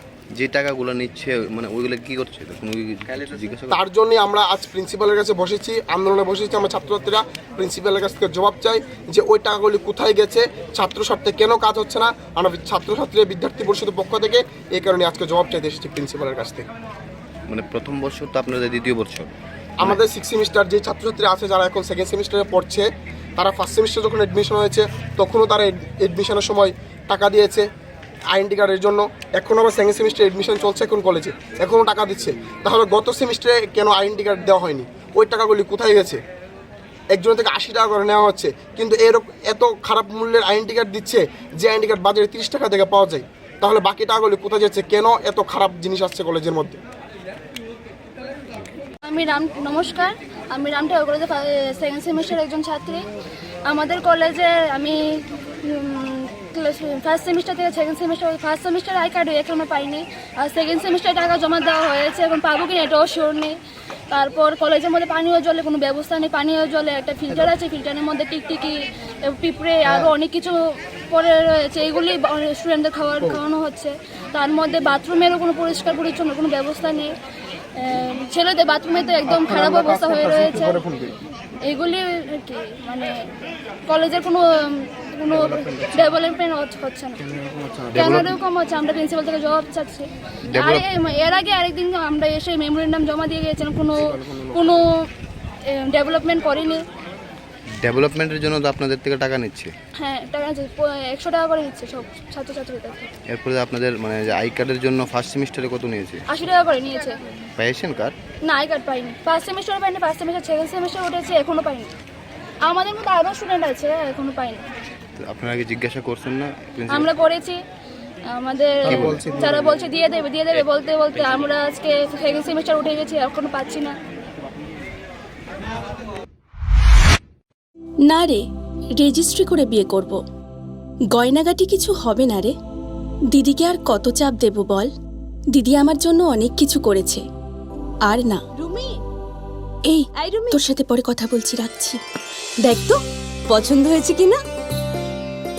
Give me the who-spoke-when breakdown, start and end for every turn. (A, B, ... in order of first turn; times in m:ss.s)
0:00.4-0:03.8 A
0:03.7-0:16.6 B
0:17.5-0:20.0 A
0:19.8-0:27.7 B
0:28.3-0:36.2 B
0:37.1-0:46.8 B
0:49.0-0:53.0 C
0:53.7-1:03.6 C
1:04.1-1:10.5 C
1:11.1-1:17.1 C
1:17.8-1:20.8 C
1:19.3-1:21.1 B
1:21.6-1:23.1 C
1:23.9-1:27.2 C
1:27.9-1:28.4 A
1:27.9-1:35.1 C
1:30.5-1:30.8 A
1:35.7-1:36.8 C
1:37.8-1:39.7 A
1:40.0-1:43.1 C
1:43.3-1:46.2 A
1:46.3-1:47.2 C
1:47.6-1:48.2 A
1:48.4-1:51.9 C
1:52.7-1:54.6 C
1:55.2-1:57.1 A
1:56.9-1:57.6 C
1:58.3-2:04.0 C
1:58.8-1:59.7 B
1:58.9-1:59.2 A
2:08.1-2:08.4 D
2:09.0-2:10.2 D
2:11.2-2:12.5 D
2:13.3-2:14.9 D
2:15.6-2:17.2 D
2:18.1-2:18.4 D
2:18.6-2:19.0 E
2:19.9-2:22.0 D
2:20.2-2:20.7 E
2:22.6-2:24.4 E